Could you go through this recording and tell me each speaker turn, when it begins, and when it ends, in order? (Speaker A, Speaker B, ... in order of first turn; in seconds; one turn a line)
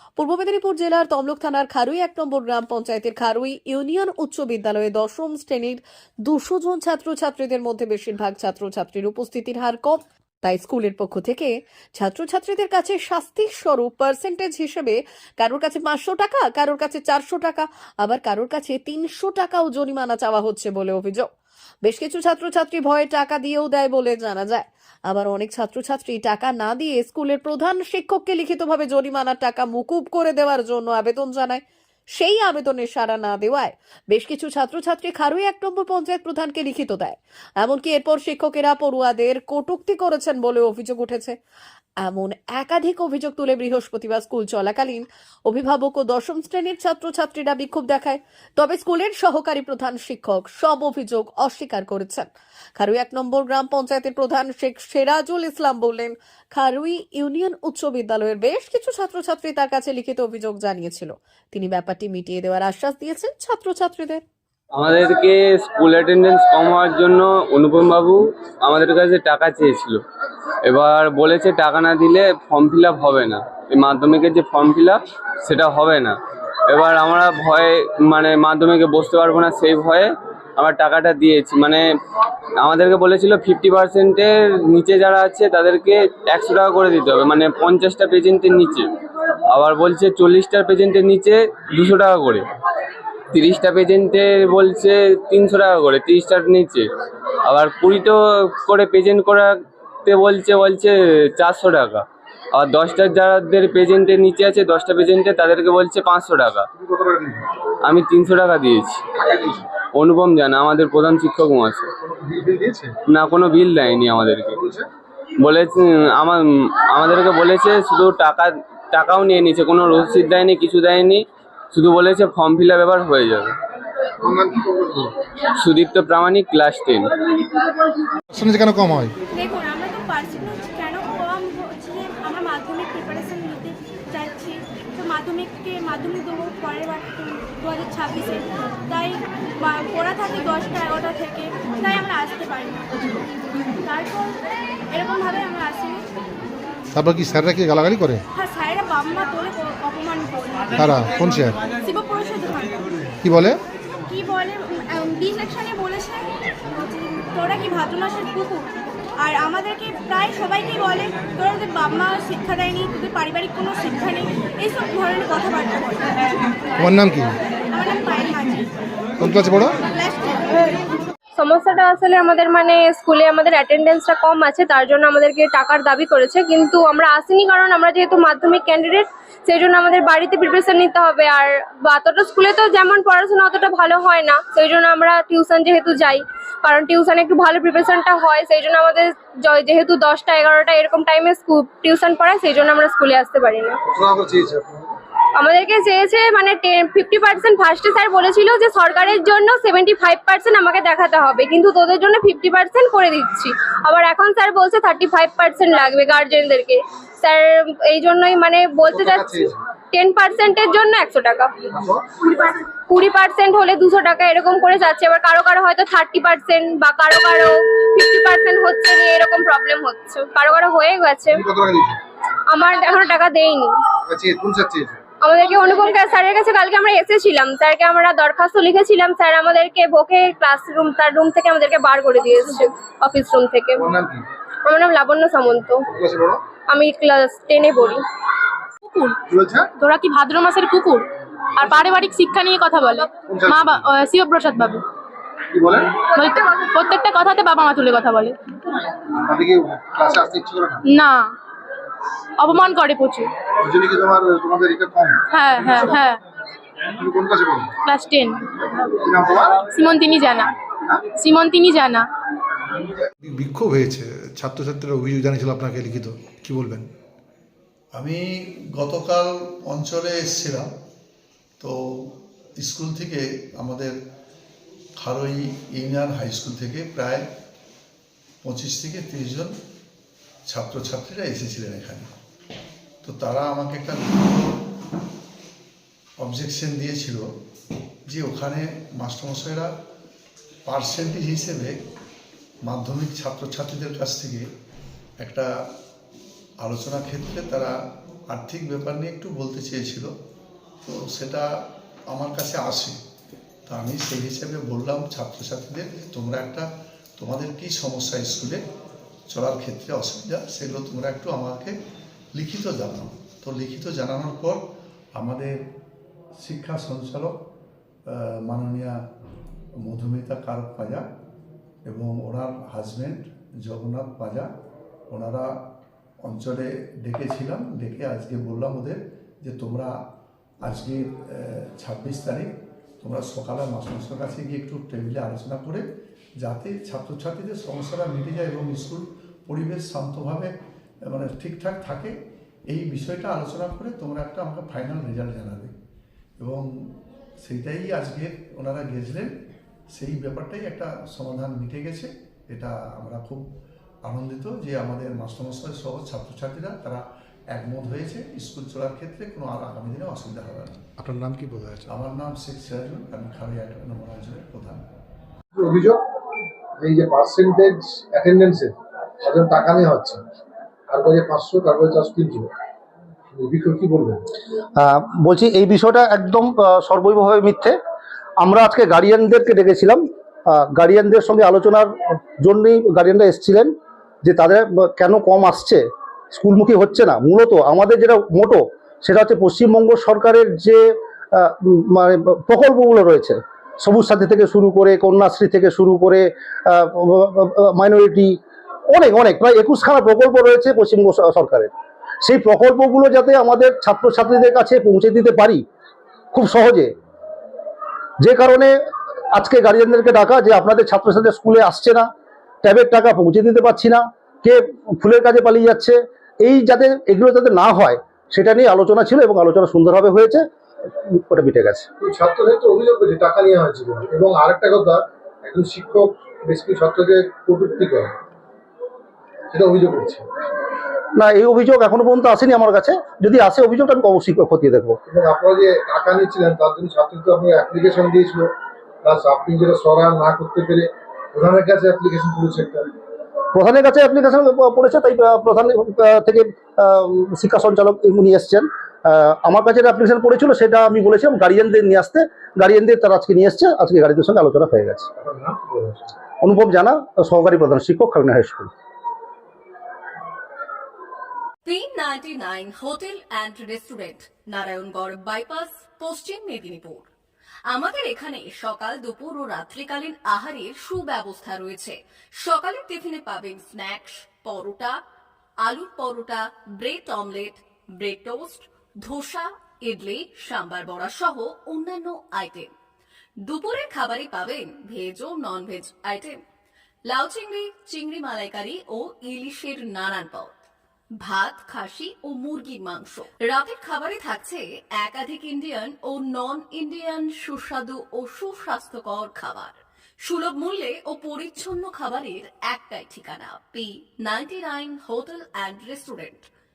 Speaker A: 0.2-21.3
Speaker A: 21.9-31.6
Speaker A: 32.2-41.4
Speaker A: 42.0-64.2
Speaker B: 64.8-70.0
Speaker B: 70.7-76.2
Speaker B: 76.7-81.8
Speaker B: 82.6-88.9
Speaker B: 89.5-92.5
Speaker B: 93.3-96.9
Speaker B: 97.5-106.7
Speaker C: 106.8-107.5
Speaker B: 107.8-109.0
Speaker C: 109.2-109.7
Speaker B: 109.9-111.9
Speaker C: 112.0-112.9
Speaker B: 113.1-114.6
Speaker C: 114.5-114.9
Speaker B: 115.4-123.5
Speaker C: 124.2-125.2
Speaker B: 125.6-127.1
Speaker D: 128.3-129.1
Speaker E: 129.3-143.2
Speaker E: 143.8-144.4
Speaker E: 144.9-146.0
Speaker D: 146.9-148.2
Speaker E: 148.3-152.9
Speaker D: 150.7-151.6
Speaker D: 153.2-153.6
Speaker E: 154.1-158.7
Speaker E: 159.2-166.8
Speaker D: 166.8-167.3
Speaker E: 167.7-168.7
Speaker D: 169.2-169.8
Speaker E: 169.2-171.0
Speaker F: 171.4-193.8
Speaker C: 193.9-195.0
Speaker F: 195.4-211.6
Speaker C: 208.9-209.6
Speaker C: 211.7-212.0
Speaker F: 212.2-221.4
Speaker C: 221.4-222.0
Speaker F: 222.5-223.8
Speaker C: 224.1-225.0
Speaker F: 225.2-233.9
Speaker C: 233.8-234.2
Speaker F: 234.7-235.8
Speaker C: 235.9-236.4
Speaker F: 236.7-238.0
Speaker G: 238.8-239.2
Speaker C: 239.3-239.7
Speaker G: 239.8-244.8
Speaker C: 243.3-243.8
Speaker C: 245.5-246.0
Speaker G: 246.2-248.4
Speaker C: 249.2-250.8
Speaker G: 250.8-251.3
Speaker G: 252.4-253.3
Speaker C: 253.6-255.2
Speaker G: 255.3-256.2
Speaker C: 257.0-257.8
Speaker G: 257.9-258.9
Speaker C: 258.9-259.6
Speaker G: 259.7-260.5
Speaker G: 261.2-262.1
Speaker D: 263.2-266.9
Speaker H: 267.9-268.2
Speaker H: 268.7-270.7
Speaker H: 271.6-273.9
Speaker H: 275.0-277.2
Speaker H: 278.4-279.5
Speaker H: 280.5-282.1
Speaker H: 283.0-284.6
Speaker H: 286.2-287.2
Speaker H: 288.1-289.7
Speaker H: 290.7-291.8
Speaker H: 292.7-294.4
Speaker H: 295.2-295.5
Speaker H: 296.6-297.7
Speaker H: 298.3-300.1
Speaker H: 300.8-301.4
Speaker H: 302.1-303.0
Speaker H: 303.7-308.6
Speaker H: 309.3-311.7
Speaker H: 312.4-314.6
Speaker H: 315.2-315.6
Speaker H: 316.4-317.4
Speaker H: 318.1-319.0
Speaker H: 319.8-321.0
Speaker H: 321.9-324.5
Speaker H: 325.1-325.5
Speaker H: 326.2-329.9
Speaker H: 330.6-332.5
Speaker H: 333.0-335.8
Speaker H: 336.4-340.5
Speaker H: 341.1-342.1
Speaker H: 342.7-345.7
Speaker H: 346.4-346.7
Speaker H: 347.4-349.3
Speaker H: 349.9-353.4
Speaker H: 354.1-357.0
Speaker H: 357.5-360.8
Speaker D: 361.0-361.9
Speaker H: 361.9-364.8
Speaker C: 365.6-366.0
Speaker C: 366.8-370.2
Speaker C: 370.9-372.5
Speaker C: 373.3-374.2
Speaker I: 374.8-377.8
Speaker I: 378.4-383.7
Speaker I: 384.2-398.4
Speaker I: 398.9-401.7
Speaker I: 402.2-405.6
Speaker I: 406.3-406.9
Speaker I: 408.2-408.8
Speaker I: 409.3-412.1
Speaker I: 412.6-420.4
Speaker I: 421.0-421.9
Speaker C: 422.0-428.1
Speaker C: 429.5-430.3
Speaker I: 431.1-435.0
Speaker C: 435.1-438.5
Speaker C: 439.0-442.9
Speaker I: 443.5-455.1
Speaker C: 455.2-456.1
Speaker I: 456.4-458.7
Speaker A: 461.6-467.1
Speaker A: 467.7-475.0
Speaker A: 475.6-482.7
Speaker A: 483.4-486.4
Speaker A: 487.1-490.5
Speaker A: 491.2-506.5